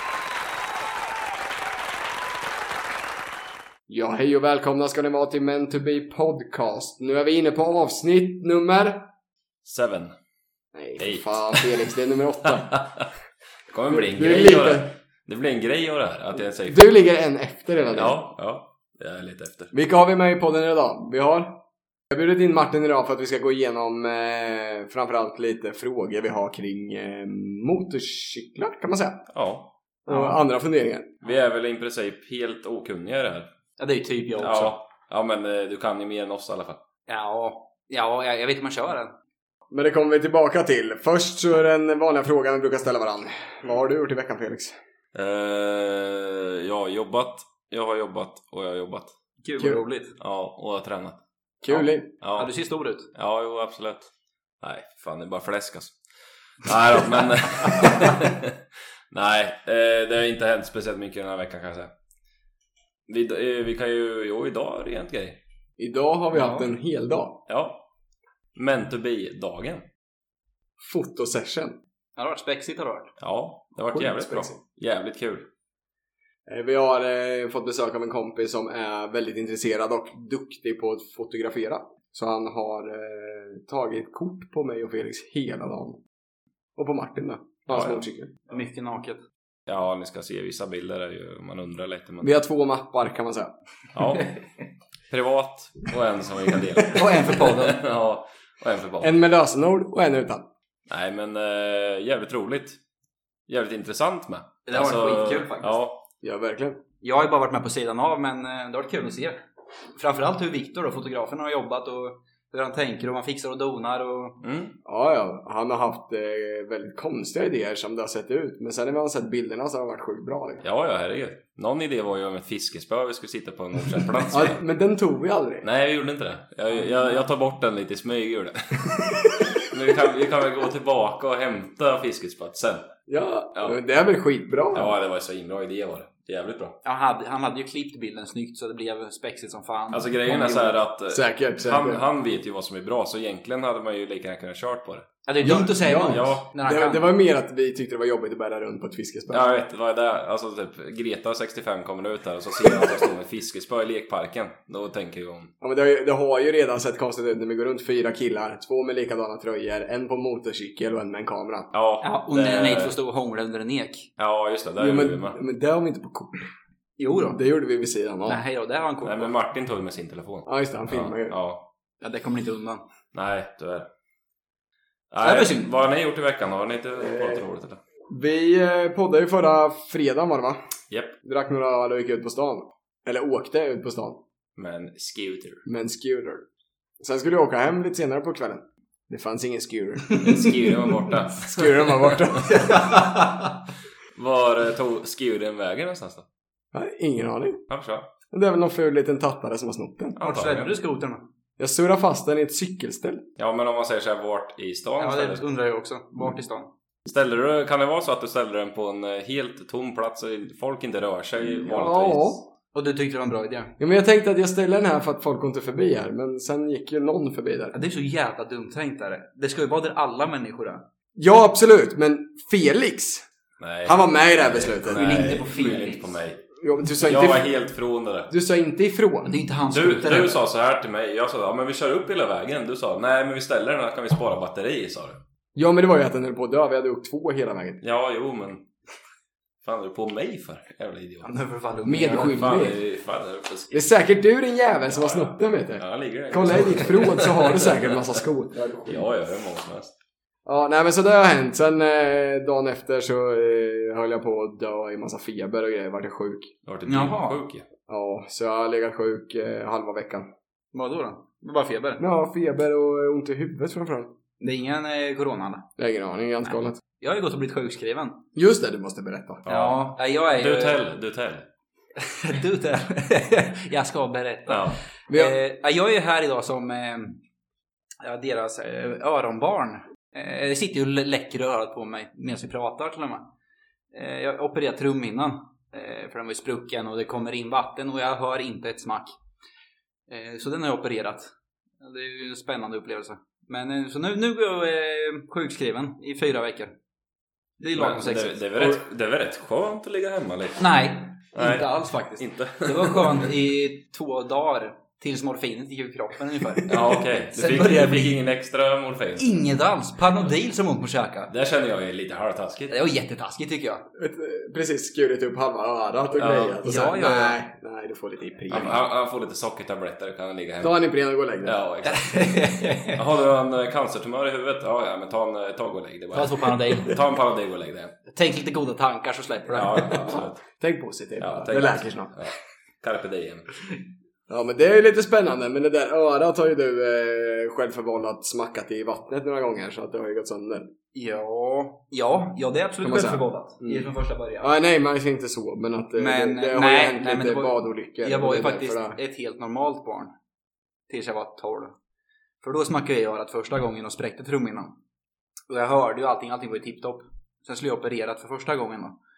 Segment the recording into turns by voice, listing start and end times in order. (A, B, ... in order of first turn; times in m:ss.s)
0:03.9-0:09.1 A
0:09.6-0:10.1 B
0:10.7-0:12.8 A
0:11.0-0:11.9 B
0:12.6-0:13.1 B
0:13.7-0:16.8 B
0:13.9-0:14.9 A
0:16.6-0:18.2 A
0:17.9-0:19.7 B
0:19.7-0:29.2 A
0:29.3-0:29.7 B
0:30.0-0:31.2 A
0:30.1-0:30.4 C
0:31.2-0:33.5 B
0:33.8-0:34.8 C
0:34.4-0:36.8 B
0:37.1-0:39.1 C
0:39.7-0:44.8 A
0:45.1-0:49.1 B
0:49.4-0:50.1 C
0:50.2-0:52.5 B
0:51.6-0:52.1 A
0:52.4-0:53.1 C
0:53.1-0:54.1 B
0:54.6-0:56.0 B
0:56.6-0:58.6 B
0:59.1-1:01.9 B
1:03.1-1:05.4 B
1:05.8-1:07.4 A
1:06.3-1:06.6 C
1:07.5-1:07.8 B
1:08.6-1:09.8 B
1:10.8-1:11.8 A
1:12.2-1:13.2 C
1:13.2-1:15.5 B
1:13.9-1:14.6 A
1:16.5-1:26.0 A
1:26.8-1:28.3 A
1:27.7-1:28.0 B
1:28.5-1:29.2 C
1:29.7-1:32.3 B
1:32.2-1:33.5 A
1:33.9-1:34.4 B
1:35.1-1:39.1 B
1:36.9-1:37.8 C
1:39.0-1:40.5 A
1:40.9-1:42.8 B
1:43.5-1:46.0 B
1:44.7-1:45.8 C
1:46.2-1:46.8 A
1:47.0-1:49.4 C
1:50.0-1:54.4 C
1:54.4-1:54.8 B
1:54.8-2:00.6 A
2:00.6-2:04.6 B
2:04.3-2:05.6 A
2:05.6-2:12.9 B
2:13.1-2:14.9 A
2:14.7-2:16.8 B
2:16.8-2:20.8 C
2:19.9-2:26.4 B
2:21.1-2:22.0 A
2:25.2-2:27.1 C
2:25.4-2:29.5 A
2:29.3-2:35.5 B
2:35.6-2:41.7 A
2:41.7-2:43.0 B
2:42.0-2:44.1 C
2:44.2-2:45.4 B
2:44.8-2:46.5 A
2:47.0-2:47.4 C
2:47.3-2:48.4 A
2:48.2-2:49.3 C
2:49.0-2:51.6 B
2:50.5-2:51.4 A
2:52.0-2:52.8 C
2:53.1-2:53.9 B
2:55.1-2:57.8 B
2:55.2-2:55.7 C
2:57.0-2:57.4 A
2:58.1-3:00.6 A
3:01.2-3:04.2 A
3:04.6-3:05.6 B
3:05.6-3:06.4 A
3:07.0-3:10.7 A
3:10.2-3:12.4 B
3:11.2-3:12.8 A
3:12.4-3:13.5 C
3:14.1-3:16.2 B
3:16.7-3:17.6 A
3:17.7-3:18.1 B
3:18.3-3:20.2 A
3:20.2-3:20.8 B
3:20.2-3:21.2 C
3:21.6-3:23.3 A
3:23.4-3:25.5 B
3:25.0-3:26.7 C
3:27.0-3:32.4 B
3:31.6-3:32.4 A
3:32.7-3:33.7 C
3:33.8-3:37.7 A
3:37.7-3:40.8 C
3:41.2-3:43.3 A
3:43.6-3:46.4 B
3:43.8-3:45.4 A
3:44.9-3:46.1 C
3:46.6-3:47.5 A
3:47.0-3:48.3 B
3:48.3-3:49.3 A
3:49.2-3:50.4 C
3:49.7-3:55.2 B
3:55.6-3:57.8 A
3:57.8-3:58.7 B
3:59.6-4:01.3 B
4:01.2-4:02.4 C
4:01.8-4:02.8 A
4:02.1-4:03.8 B
4:03.7-4:09.0 A
4:04.9-4:08.2 B
4:08.8-4:09.9 B
4:10.4-4:16.5 A
4:16.6-4:17.6 B
4:16.8-4:17.4 C
4:17.9-4:20.3 A
4:20.7-4:22.0 C
4:22.0-4:24.1 A
4:24.4-4:25.7 C
4:25.8-4:26.8 A
4:27.0-4:28.2 C
4:28.3-4:29.4 A
4:29.4-4:31.5 B
4:29.5-4:30.8 C
4:32.0-4:37.2 C
4:34.5-4:34.8 B
4:35.1-4:35.4 A
4:38.0-4:43.3 C
4:43.9-4:49.2 C
4:50.1-4:56.7 C
4:57.6-4:58.8 C
4:57.7-5:00.7 B
5:00.6-5:08.2 C
5:01.3-5:03.3 B
5:06.7-5:09.4 B
5:09.2-5:11.3 C
5:11.3-5:12.8 B
5:12.7-5:13.8 C
5:14.0-5:18.8 A
5:16.2-5:16.7 B
5:16.6-5:17.4 C
5:18.5-5:20.8 B
5:20.6-5:21.6 A
5:21.4-5:28.0 B
5:21.8-5:23.0 C
5:26.1-5:27.0 C
5:28.1-5:30.1 C
5:29.5-5:30.4 B
5:30.6-5:32.2 A
5:31.2-5:33.5 B
5:34.3-5:40.7 A
5:40.9-5:44.5 C
5:42.8-5:43.9 A
5:44.4-5:49.0 A
5:46.0-5:50.1 C
5:50.9-5:51.7 C
5:52.4-5:54.8 C
5:55.5-5:59.0 C